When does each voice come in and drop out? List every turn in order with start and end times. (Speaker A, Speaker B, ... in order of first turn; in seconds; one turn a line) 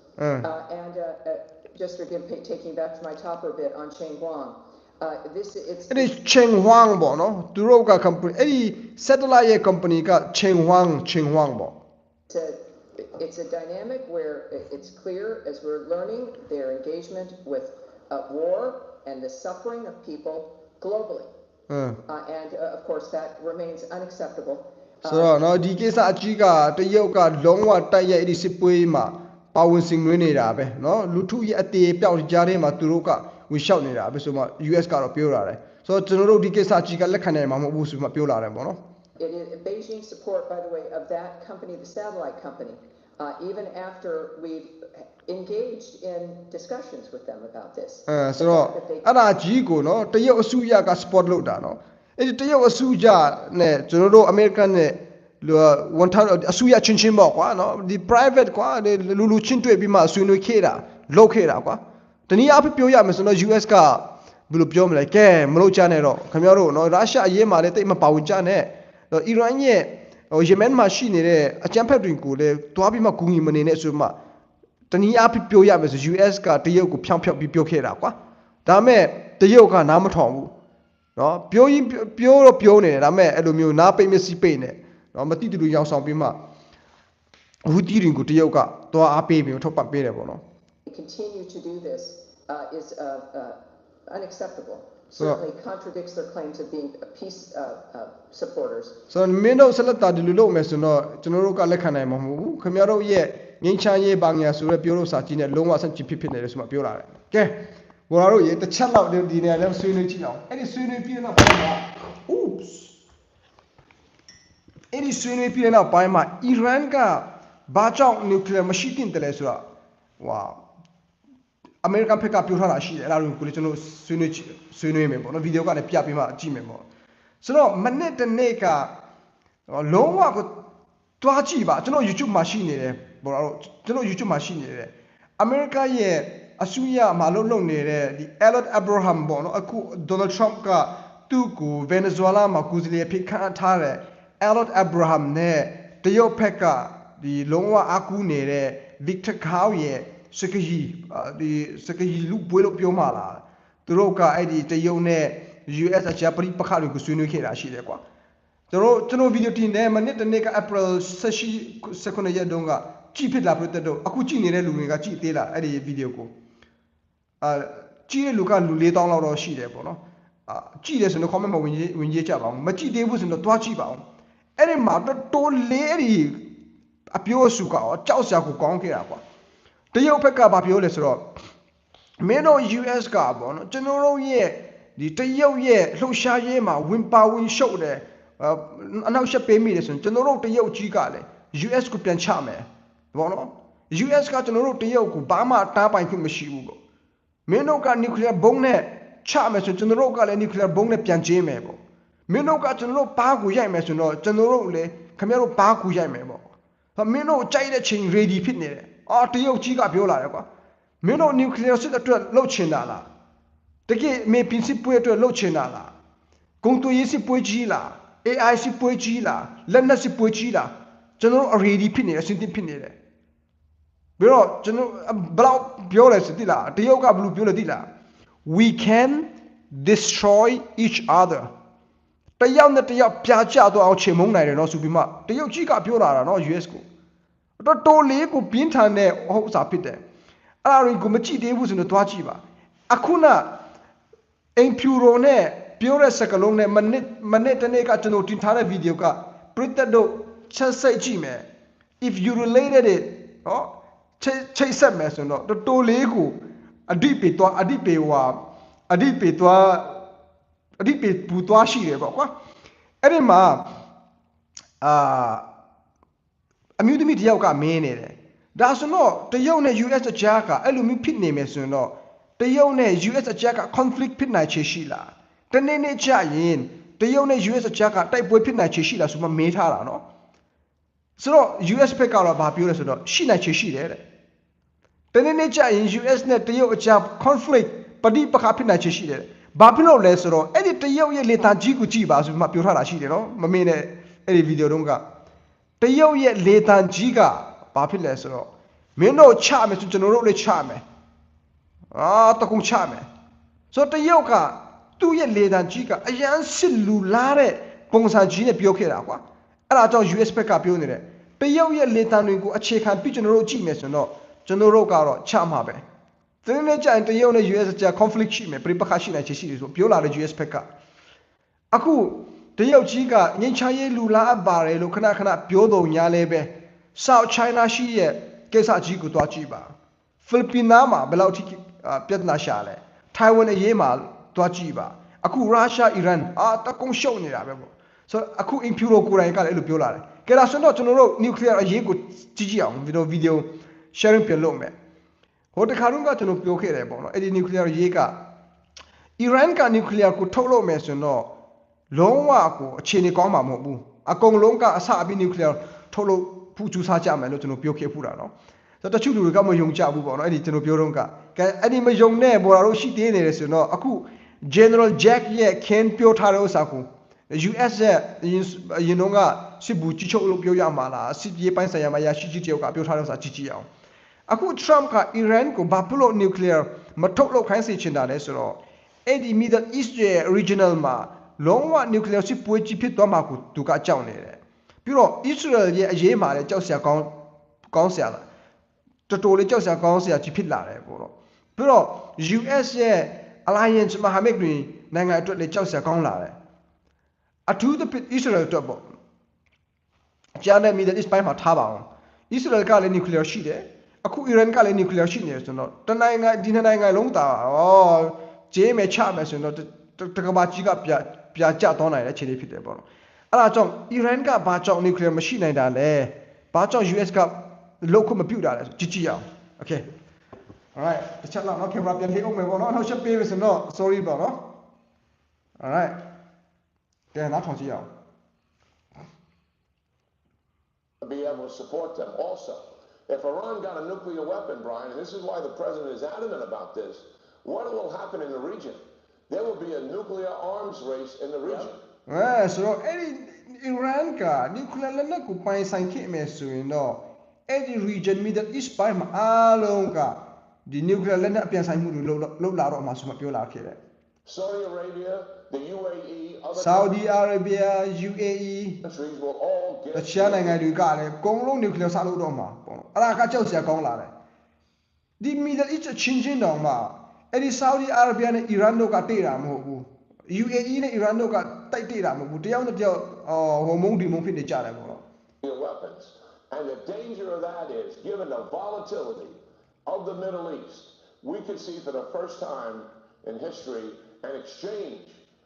Speaker A: 0.2-0.5
Speaker B: 0.4-6.1
Speaker A: 5.9-11.8
Speaker B: 12.3-21.3
Speaker A: 21.7-22.0
Speaker B: 22.1-25.5
Speaker A: 25.0-38.8
Speaker B: 39.2-49.1
Speaker A: 48.1-74.2
Speaker A: 74.9-80.5
Speaker A: 81.2-86.4
Speaker A: 87.7-90.4
Speaker B: 90.9-99.0
Speaker A: 99.1-113.0
Speaker A: 114.9-119.7
Speaker A: 120.2-120.6
Speaker A: 121.8-126.9
Speaker A: 127.4-128.9
Speaker A: 129.7-130.6
Speaker A: 131.2-158.0
Speaker A: 158.7-166.3
Speaker A: 167.4-174.0
Speaker A: 174.6-176.5
Speaker A: 177.1-179.2
Speaker A: 179.9-181.3
Speaker A: 182.2-196.8
Speaker A: 197.5-210.5
Speaker A: 211.0-213.1
Speaker A: 213.9-215.9
Speaker A: 216.6-222.9
Speaker A: 224.2-227.9
Speaker A: 228.5-231.5
Speaker A: 232.4-236.8
Speaker A: 237.6-240.0
Speaker A: 240.6-243.6
Speaker A: 244.6-251.5
Speaker A: 252.0-260.1
Speaker A: 260.8-262.3
Speaker A: 263.0-263.7
Speaker A: 264.8-265.5
Speaker A: 266.8-280.1
Speaker A: 281.2-284.0
Speaker A: 285.1-295.0
Speaker A: 295.8-300.8
Speaker A: 301.9-303.1
Speaker A: 303.7-315.8
Speaker A: 316.4-320.7
Speaker A: 321.7-344.8
Speaker A: 345.5-348.2
Speaker A: 349.2-351.3
Speaker A: 351.9-373.7
Speaker A: 374.3-387.2
Speaker A: 387.7-388.3
Speaker A: 389.1-396.4
Speaker A: 397.5-398.9
Speaker A: 400.4-419.9
Speaker A: 420.8-424.5
Speaker A: 425.6-426.0
Speaker A: 427.1-427.9
Speaker C: 431.0-441.8
Speaker A: 442.1-453.8
Speaker C: 454.2-457.0
Speaker A: 456.6-458.8
Speaker C: 458.8-460.6
Speaker A: 459.9-464.1
Speaker A: 465.2-475.0
Speaker C: 475.4-485.2